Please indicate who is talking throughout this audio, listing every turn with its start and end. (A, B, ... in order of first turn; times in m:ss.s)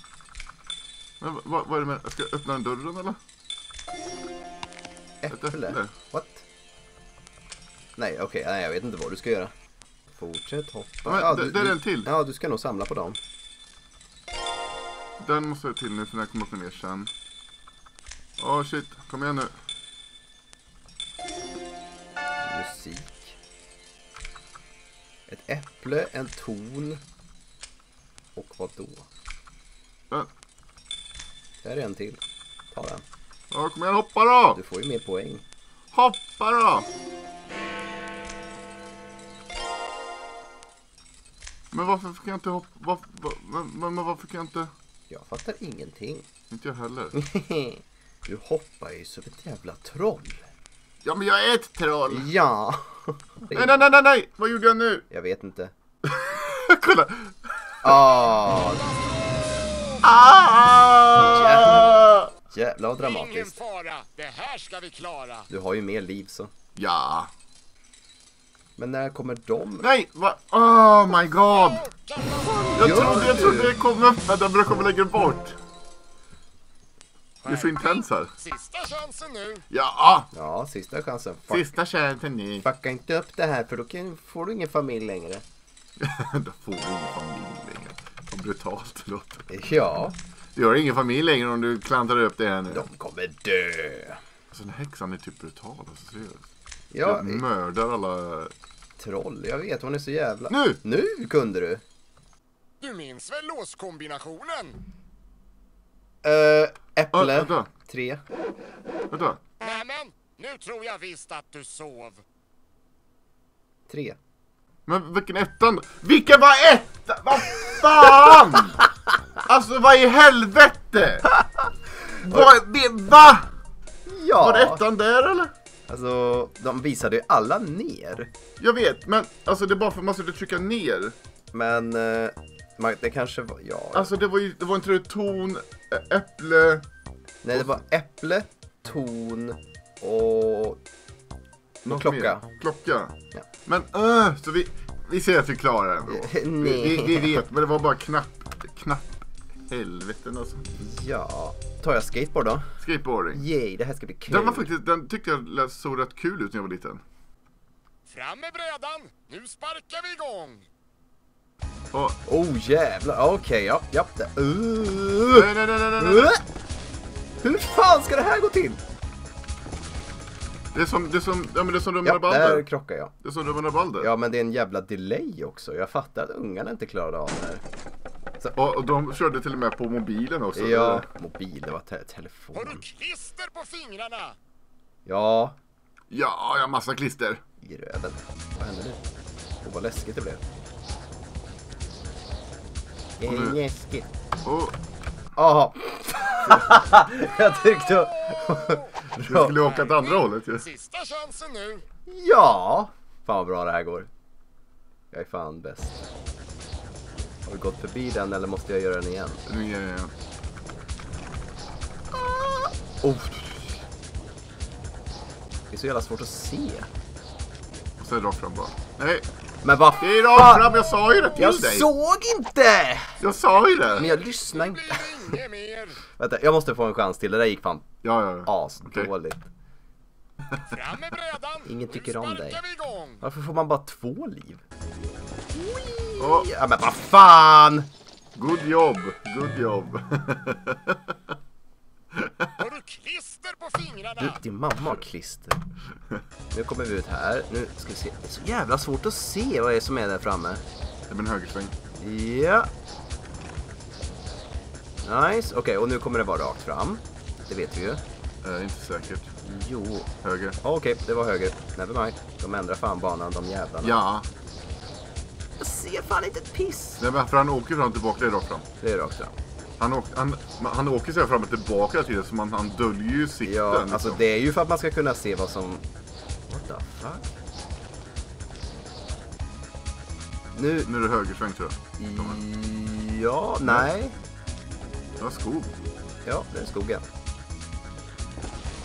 0:01.2-0:03.2 A
0:05.2-0:06.4 B
0:05.3-0:05.9 A
0:08.0-0:09.5 B
0:10.1-0:13.2 B
0:11.1-0:12.1 A
0:15.2-0:17.1 A
0:18.4-0:19.5 A
0:22.4-0:23.4 B
0:25.3-0:27.0 B
0:28.4-0:29.1 B
0:31.6-0:32.2 B
0:32.7-0:33.0 B
0:33.5-0:34.6 A
0:34.6-0:35.4 B
0:35.9-0:36.9 A
0:41.7-0:44.7 A
0:45.1-0:46.3 B
0:46.5-0:47.2 A
0:47.1-0:50.4 B
0:51.0-0:52.3 A
0:52.1-0:53.7 B
0:53.5-0:55.1 A
0:55.1-0:55.7 B
0:56.0-0:58.2 A
0:57.8-0:58.9 B
0:58.6-1:00.0 C
1:00.0-1:02.3 A
1:01.2-1:03.6 B
1:03.0-1:05.5 C
1:05.5-1:06.5 B
1:06.8-1:07.3 A
1:08.8-1:09.9 B
1:09.8-1:11.8 A
1:11.5-1:13.1 C
1:12.4-1:15.6 A
1:12.8-1:13.7 B
1:17.4-1:19.7 C
1:17.5-1:18.3 A
1:19.7-1:20.3 A
1:20.3-1:21.7 B
1:21.5-1:22.7 A
1:22.6-1:25.4 B
1:26.0-1:29.5 A
1:29.5-1:30.2 B
1:30.6-1:32.9 A
1:32.7-1:34.2 B
1:34.5-1:36.5 A
1:36.9-1:37.4 B
1:37.0-1:38.5 A
1:39.0-1:41.8 B
1:40.5-1:40.8 A
1:42.8-1:44.8 C
1:46.2-1:48.2 B
1:47.1-1:47.7 A
1:49.1-1:49.4 A
1:49.6-1:52.2 C
1:53.9-1:54.2 B
1:54.9-1:58.8 A
1:59.4-2:01.3 A
2:01.6-2:02.5 B
2:02.2-2:03.5 A
2:04.1-2:04.8 B
2:04.4-2:05.5 A
2:05.9-2:08.3 B
2:08.6-2:11.2 A
2:11.5-2:14.1 B
2:13.9-2:16.8 A
2:17.4-2:20.8 B
2:21.8-2:23.2 A
2:21.9-2:22.5 B
2:23.7-2:30.7 A
2:26.1-2:27.4 B
2:30.8-2:32.7 B
2:32.8-2:33.4 A
2:33.3-2:34.7 B
2:34.3-2:37.0 A
2:38.1-2:40.7 C
2:41.9-2:42.2 A
2:42.3-2:46.4 B
2:45.3-2:46.3 A
2:47.4-2:48.8 B
2:50.7-2:52.7 A
2:52.0-2:53.1 B
2:53.2-2:54.1 A
2:54.0-2:57.6 B
2:58.5-3:01.1 A
3:00.6-3:02.8 B
3:02.6-3:04.4 C
3:05.1-3:05.6 B
3:06.1-3:07.4 A
3:07.6-3:09.0 B
3:09.6-3:10.4 B
3:13.2-3:14.1 B
3:13.2-3:13.6 A
3:14.4-3:14.8 A
3:15.4-3:19.6 B
3:18.2-3:18.9 C
3:19.2-3:20.7 A
3:19.6-3:21.9 C
3:22.1-3:24.1 B
3:25.1-3:26.1 B
3:27.5-3:29.4 B
3:29.5-3:30.1 A
3:32.1-3:33.8 B
3:35.7-3:36.9 B
3:38.0-3:39.3 A
3:39.6-3:40.7 B
3:40.0-3:41.9 A
3:41.4-3:43.2 B
3:43.2-3:44.1 A
3:43.6-3:46.0 C
3:44.0-3:45.4 B
3:46.2-3:47.9 B
3:48.0-3:49.1 A
3:48.5-3:49.5 B
3:50.6-3:53.2 C
3:51.7-3:52.6 B
3:53.2-3:54.6 B
3:55.5-3:57.9 B
3:56.2-3:56.5 A
3:58.4-4:01.2 A
4:02.1-4:02.5 A
4:02.6-4:04.4 C
4:04.2-4:05.6 B
4:06.5-4:10.6 B
4:11.1-4:11.8 A
4:12.0-4:12.7 B
4:15.0-4:18.0 B
4:18.4-4:19.3 A
4:19.4-4:20.1 B
4:20.2-4:20.6 A
4:20.6-4:24.0 B
4:23.8-4:24.3 A
4:25.6-4:27.0 B
4:27.0-4:28.7 A
4:28.8-4:29.3 B
4:29.8-4:34.2 A
4:33.4-4:35.8 B
4:36.5-4:37.3 B
4:40.5-4:40.9 B
4:40.8-4:42.4 A
4:42.0-4:44.2 B
4:45.2-4:45.7 A
4:46.2-4:47.0 B